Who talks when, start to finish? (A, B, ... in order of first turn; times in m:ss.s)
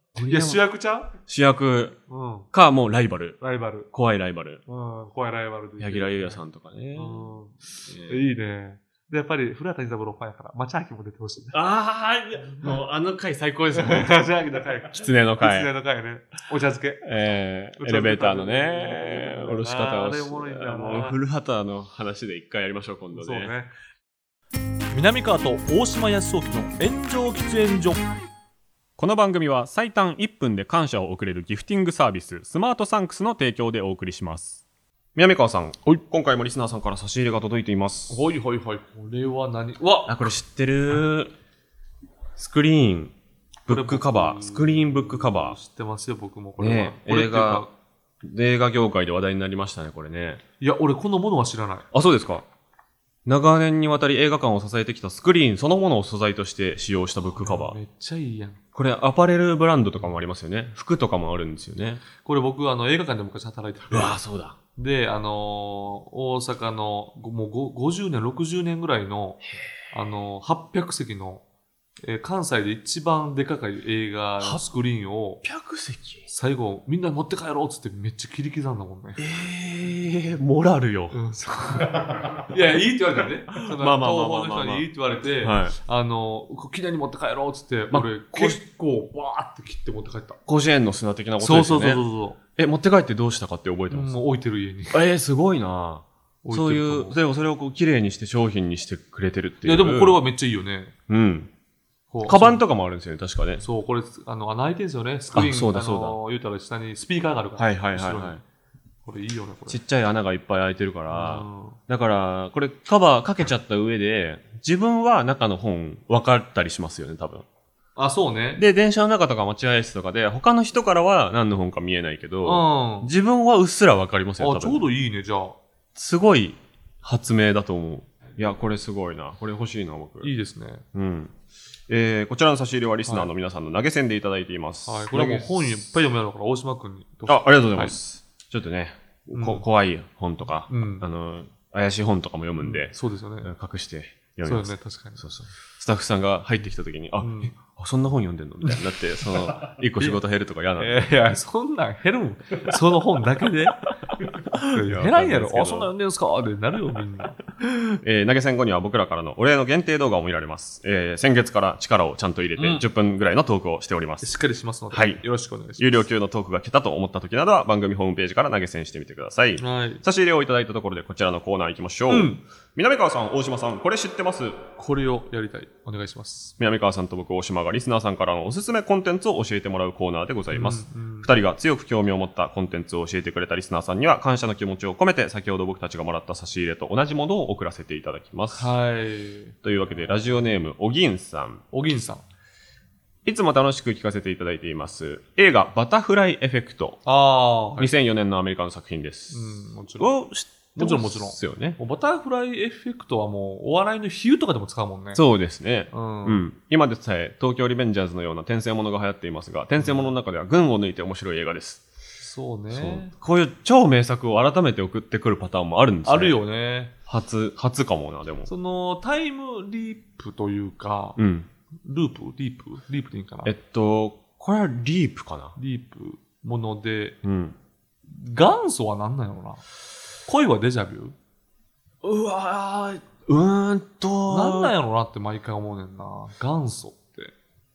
0:00.1-0:00.6 A
0:00.2-0:01.1 B
0:01.2-0:02.0 A
0:02.1-0:02.5 B
0:02.5-0:03.4 A
0:03.4-0:03.9 B
0:03.9-0:04.6 A
0:04.7-0:06.4 B
0:05.8-0:07.3 A
0:06.9-0:11.6 B
0:07.8-0:08.3 A
0:11.5-0:14.2 A
0:13.7-0:17.0 B
0:14.9-0:15.7 A
0:17.0-0:23.5 A
0:17.8-0:21.2 B
0:23.1-0:23.7 B
0:24.9-0:28.0 B
0:29.0-0:34.6 A
0:35.1-0:38.2 A
0:38.1-0:40.3 B
0:40.1-0:41.3 A
0:42.4-0:43.1 A
0:43.6-0:45.6 A
0:43.7-0:47.7 B
0:46.6-0:47.6 A
0:48.2-0:50.4 A
0:50.6-0:51.9 B
0:51.9-0:52.4 A
0:53.3-0:57.8 A
0:57.3-0:58.6 B
0:58.7-1:02.0 A
1:02.2-1:04.2 B
1:03.9-1:04.6 A
1:04.8-1:11.4 B
1:12.0-1:15.4 B
1:14.4-1:14.6 A
1:15.4-1:16.3 A
1:16.3-1:19.2 B
1:19.2-1:21.2 A
1:21.1-1:30.4 B
1:23.6-1:25.8 A
1:27.9-1:28.6 A
1:30.5-1:32.0 A
1:31.4-1:32.4 B
1:32.6-1:34.1 A
1:33.9-1:35.0 B
1:34.9-1:40.2 A
1:36.4-1:37.2 B
1:39.6-1:40.9 B
1:41.1-1:41.5 A
1:42.1-1:42.6 B
1:42.2-1:43.6 A
1:43.6-1:48.4 B
1:45.3-1:46.2 A
1:47.6-1:48.4 A
1:49.0-1:49.8 B
1:49.7-1:57.4 A
1:51.1-1:51.8 B
1:58.0-1:58.6 B
1:58.6-2:04.8 A
2:02.4-2:03.1 B
2:04.4-2:05.6 B
2:05.9-2:10.3 A
2:10.2-2:10.8 B
2:10.9-2:11.4 A
2:11.9-2:15.9 A
2:14.9-2:18.0 B
2:17.3-2:31.1 A
2:19.3-2:19.6 B
2:20.7-2:21.0 B
2:22.6-2:23.5 B
2:24.4-2:25.2 B
2:27.2-2:27.5 B
2:30.8-2:33.8 B
2:34.5-2:35.9 A
2:34.6-2:37.4 B
2:37.6-2:44.3 A
2:42.6-2:42.8 B
2:44.2-2:46.1 B
2:44.9-2:45.2 A
2:45.8-2:54.6 A
2:49.6-2:50.0 B
2:52.1-2:52.4 B
2:54.8-2:56.6 B
2:56.6-3:08.7 A
3:00.5-3:01.3 B
3:08.6-3:09.6 B
3:09.6-3:11.6 A
3:11.7-3:12.2 B
3:13.2-3:17.0 A
3:17.0-3:17.9 B
3:17.8-3:21.8 A
3:19.3-3:25.2 B
3:25.1-3:31.9 A
3:25.9-3:26.4 B
3:29.8-3:30.1 B
3:32.2-3:33.1 B
3:32.7-3:36.4 A
3:36.0-3:36.9 B
3:37.1-3:38.5 A
3:38.5-3:41.2 B
3:41.2-3:41.5 A
3:41.8-3:43.5 B
3:43.4-3:45.6 A
3:45.6-3:47.2 B
3:47.2-3:47.6 A
3:48.1-3:49.6 B
3:50.3-3:51.1 B
3:52.0-3:54.7 A
3:54.3-3:57.3 B